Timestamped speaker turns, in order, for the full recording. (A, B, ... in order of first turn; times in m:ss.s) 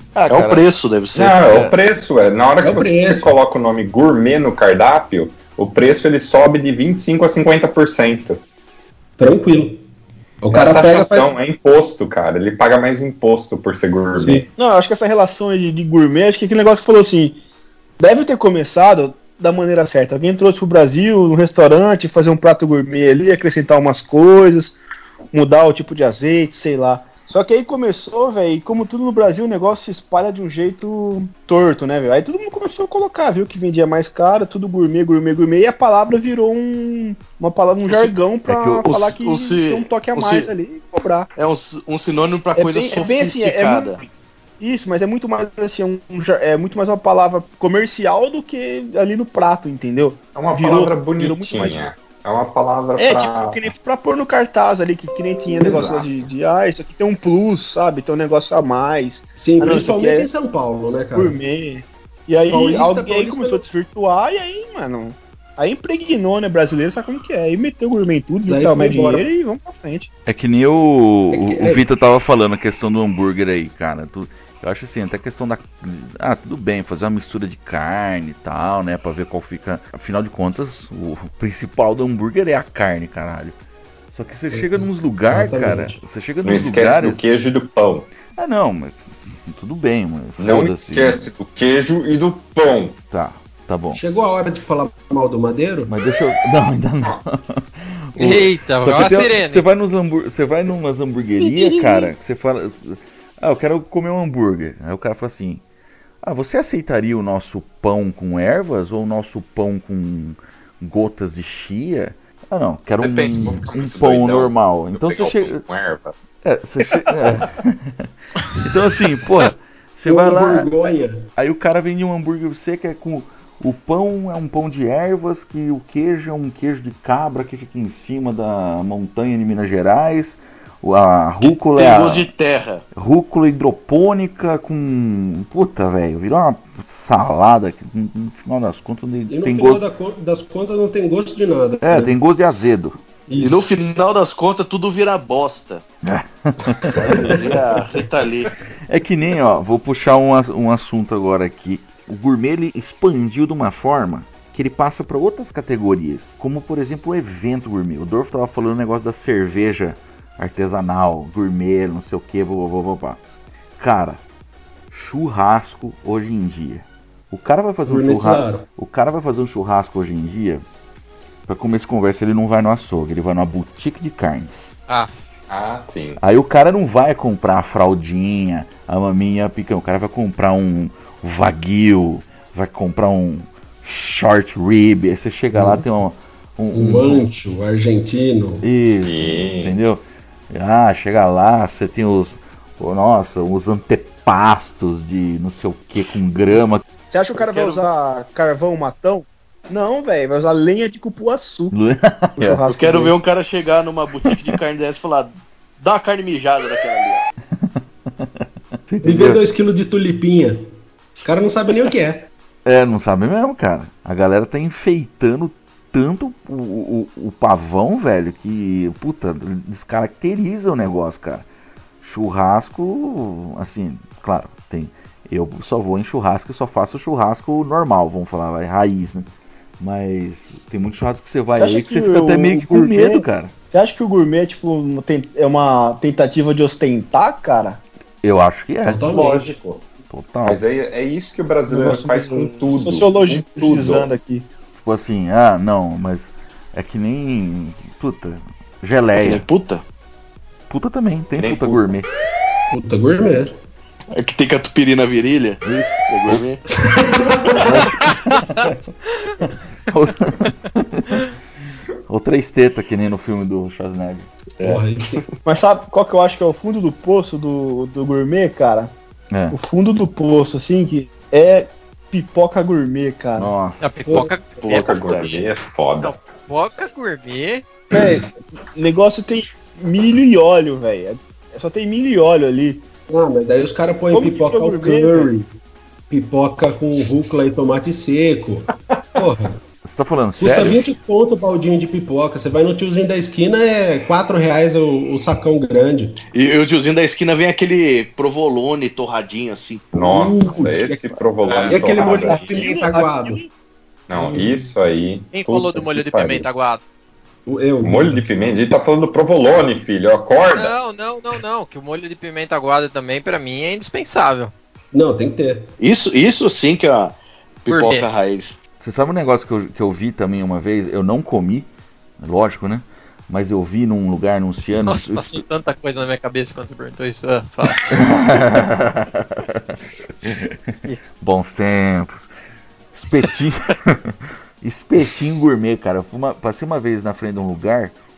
0:00.1-0:00.6 A
0:00.3-0:01.6 B
0:01.1-0:08.4 C
0:01.4-0:01.7 A
0:02.6-0:03.3 D
0:09.2-0:09.8 D
0:10.4-0:11.3 D
0:10.5-0:14.5 C
0:14.2-0:14.5 D
0:14.6-0:17.4 E
0:18.0-0:24.8 E
0:25.3-0:41.3 E
0:37.9-0:40.5 B
0:41.4-0:44.0 B
0:42.6-0:44.0 E
0:44.6-0:51.8 E
0:50.3-0:53.7 C
0:53.0-1:00.3 E
0:55.6-0:56.1 C
0:59.4-1:01.4 D
1:01.1-1:10.1 E
1:02.5-1:03.6 D
1:08.5-1:09.2 D
1:10.2-1:23.6 A
1:11.3-1:11.8 D
1:24.1-1:27.2 A
1:24.5-1:26.0 D
1:26.4-1:28.1 C
1:28.3-1:31.3 A
1:30.4-1:33.0 C
1:33.1-1:34.0 A
1:33.9-1:35.9 D
1:35.9-1:45.6 A
1:38.2-1:39.6 F
1:46.2-1:55.6 A
1:53.0-1:56.2 C
1:56.4-1:58.1 A
1:58.6-2:00.8 A
2:00.0-2:01.3 D
2:01.4-2:12.3 A
2:11.4-2:12.8 B
2:12.9-2:19.8 A
2:19.3-2:22.2 D
2:21.9-2:23.0 A
2:23.3-2:23.6 D
2:23.4-2:25.8 B
2:26.0-2:27.5 A
2:26.9-2:28.5 B
2:28.9-2:43.2 A
2:43.8-2:44.2 A
2:44.9-2:50.6 A
2:47.8-2:48.7 D
2:51.4-2:54.7 A
2:54.9-2:55.2 F
2:55.5-2:56.2 C
2:56.2-3:07.2 A
3:05.5-3:05.8 D
3:06.7-3:08.6 D
3:08.6-3:16.8 A
3:09.0-3:09.8 C
3:17.1-3:21.7 E
3:21.7-3:22.6 A
3:22.4-3:23.1 E
3:22.7-3:27.3 B
3:27.6-3:29.4 A
3:29.0-3:30.7 D
3:31.2-3:32.3 D
3:32.6-3:41.4 A
3:42.0-3:49.3 A
3:49.8-3:53.5 A
3:51.5-3:57.8 E
3:58.2-3:59.1 A
3:58.8-3:59.6 D
3:59.0-3:59.9 C
4:00.1-4:00.6 A
4:00.4-4:04.1 C
4:01.7-4:04.5 E
4:04.8-4:09.4 A
4:09.2-4:09.8 B
4:10.7-4:12.1 A
4:11.4-4:11.9 C
4:12.7-4:13.6 D
4:14.1-4:16.6 B
4:15.6-4:16.4 A
4:16.8-4:17.6 D
4:17.6-4:18.8 A
4:19.4-4:21.2 A
4:22.1-4:24.3 A
4:24.6-4:25.3 B
4:24.6-4:25.2 D
4:25.4-4:28.9 E
4:29.3-4:29.6 A
4:29.5-4:33.5 E
4:33.4-4:34.3 A
4:33.8-4:35.4 F
4:34.1-4:34.3 D
4:34.6-4:35.4 B
4:34.7-4:36.2 C
4:36.0-4:37.6 F
4:37.9-4:42.8 E
4:43.1-4:45.5 D
4:44.1-4:45.3 E
4:46.1-4:49.6 D
4:49.8-4:50.9 A
4:50.4-4:56.2 D
4:56.3-4:59.9 B
4:59.9-5:03.4 D
4:59.9-5:02.5 C
5:01.5-5:02.4 F
5:02.0-5:03.5 E
5:04.1-5:06.5 C
5:04.1-5:04.7 D
5:05.3-5:06.8 F
5:07.4-5:08.3 D
5:07.8-5:10.7 C
5:10.6-5:14.5 F
5:14.9-5:15.7 D
5:15.8-5:18.6 B
5:17.7-5:18.1 F
5:18.8-5:21.7 A
5:22.2-5:25.4 A
5:24.8-5:27.8 F
5:27.9-5:32.3 A
5:32.9-5:37.9 A